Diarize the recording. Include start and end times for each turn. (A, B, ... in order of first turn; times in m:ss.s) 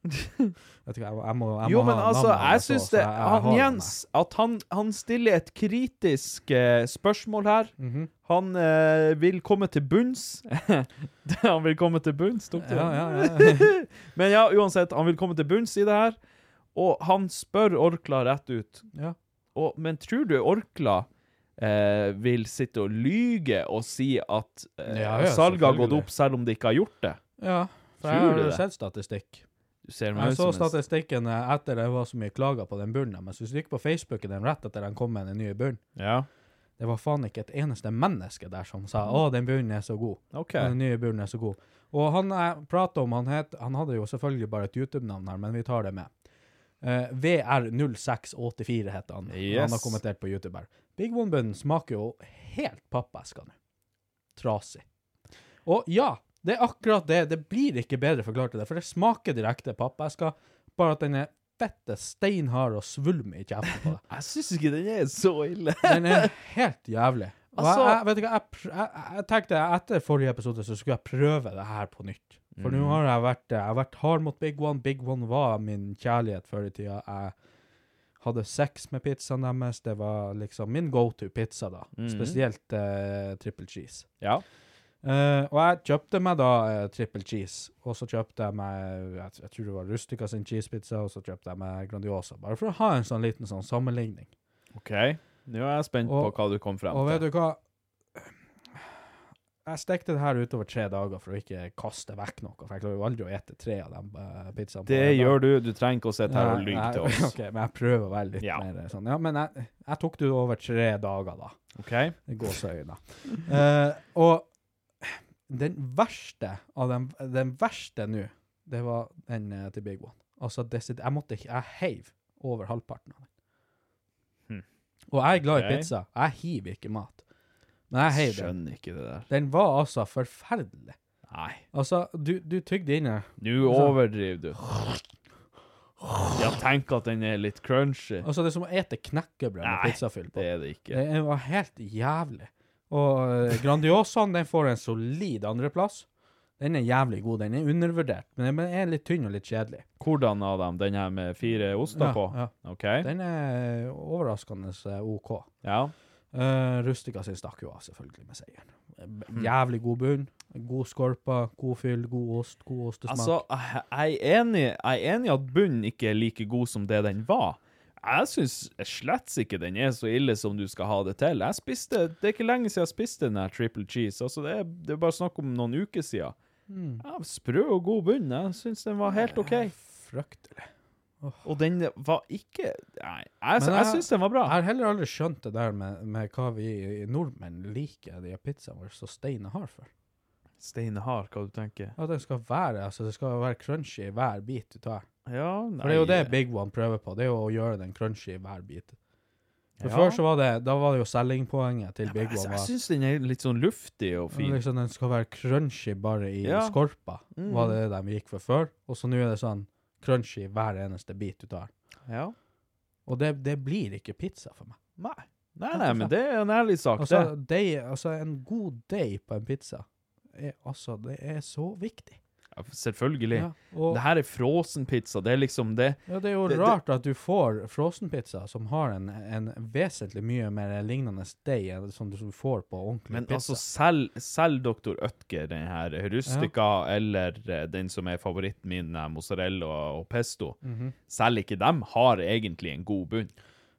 0:00.1-0:00.5 A
0:00.8-0:03.9 B
0:01.6-0:07.7 A
0:07.8-0:08.1 B
0:08.2-0:16.2 A
0:12.6-0:13.7 B
0:16.7-0:18.9 A
0:19.5-0:21.1 A
0:21.6-0:27.2 A
0:24.9-0:26.1 B
0:27.4-0:29.4 B
0:28.0-0:28.6 A
0:29.8-0:30.7 A
0:30.1-0:35.8 B
0:36.0-0:36.3 A
0:36.8-0:46.1 B
0:40.3-0:40.7 A
0:46.8-0:53.5 B
0:49.3-0:50.0 A
0:54.4-0:54.8 B
0:55.6-1:04.0 B
1:04.1-1:06.3 A
1:05.8-1:17.3 B
1:07.5-1:08.0 A
1:12.6-1:13.0 A
1:18.2-1:24.1 B
1:22.0-1:22.4 A
1:25.0-1:34.3 B
1:34.7-1:37.2 A
1:36.0-1:36.4 B
1:36.9-1:37.6 B
1:38.2-1:38.8 B
1:39.6-1:45.4 B
1:44.9-1:47.3 A
1:46.3-1:51.6 B
1:51.8-1:52.2 A
1:52.3-1:54.5 B
1:55.0-2:03.3 B
2:05.1-2:07.2 B
2:05.5-2:05.9 A
2:07.9-2:08.5 B
2:08.1-2:09.3 A
2:09.3-2:11.0 B
2:11.3-2:11.6 A
2:11.7-2:14.0 B
2:13.4-2:14.6 A
2:16.4-2:18.3 A
2:18.2-2:26.0 B
2:19.6-2:21.0 A
2:26.6-2:29.8 B
2:30.0-2:33.1 A
2:31.9-2:35.5 B
2:35.6-2:35.9 A
2:36.3-2:43.4 B
2:43.1-2:56.3 A
2:56.7-2:57.0 B
2:57.0-2:59.7 A
2:59.1-3:00.7 B
3:01.4-3:04.6 A
3:03.6-3:09.9 B
3:10.6-3:12.0 A
3:12.0-3:15.0 B
3:15.3-3:16.3 A
3:15.8-3:18.9 B
3:19.8-3:20.2 A
3:19.8-3:22.7 B
3:22.0-3:24.6 A
3:24.3-3:31.7 B
3:26.4-3:26.8 A
3:27.3-3:27.8 A
3:32.1-3:32.3 A
3:33.0-3:34.8 B
3:35.0-3:37.3 A
3:35.7-3:36.1 B
3:37.0-3:42.2 B
3:42.5-3:46.8 A
3:43.3-3:44.0 B
3:46.1-3:53.6 B
3:53.1-4:00.6 A
3:56.2-3:56.5 B
4:00.6-4:00.9 B
4:01.1-4:03.3 A